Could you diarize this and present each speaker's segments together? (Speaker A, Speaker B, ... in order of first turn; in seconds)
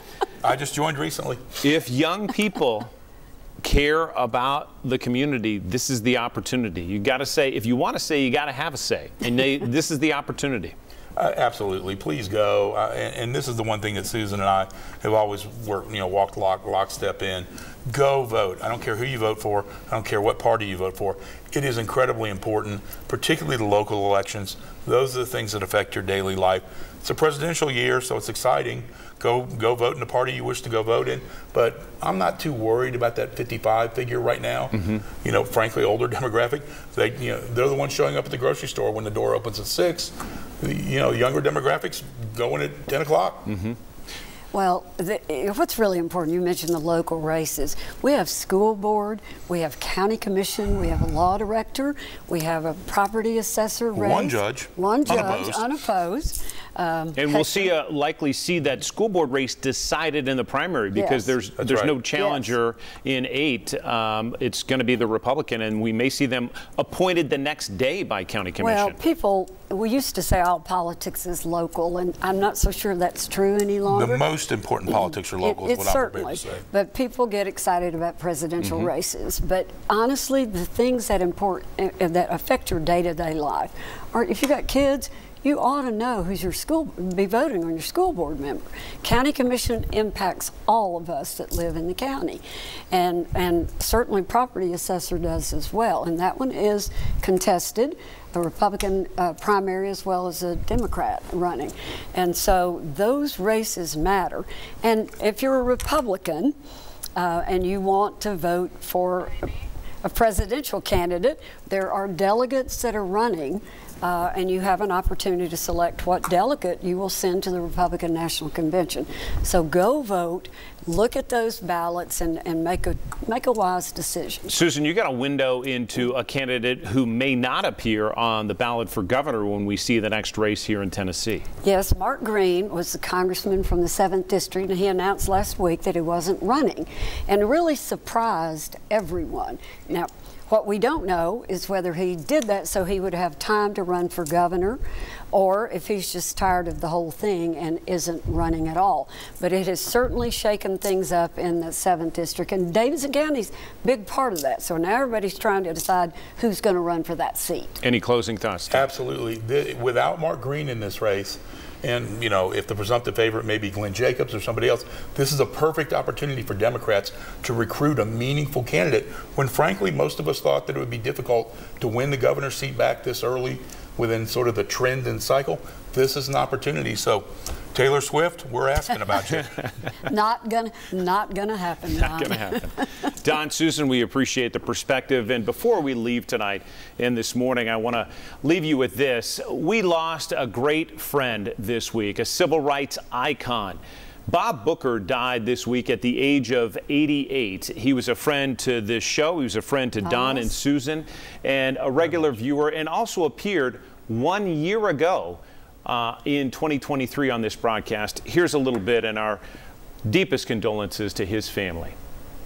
Speaker A: 0.4-1.6, 11.2-43.5, 54.0-55.7, 61.6-62.0, 73.9-76.6, 158.7-179.7
Speaker B: 1.6-2.9, 3.6-10.8, 43.5-43.8, 57.2-69.0, 124.5-131.4, 157.8-158.9, 182.1-209.4, 210.1-211.9
Speaker C: 44.5-57.7, 60.9-61.4, 62.1-62.5, 68.6-74.2, 74.9-106.5, 107.2-109.5, 110.0-124.5, 131.6-144.8, 145.3-157.8, 180.1-182.8, 200.0-200.5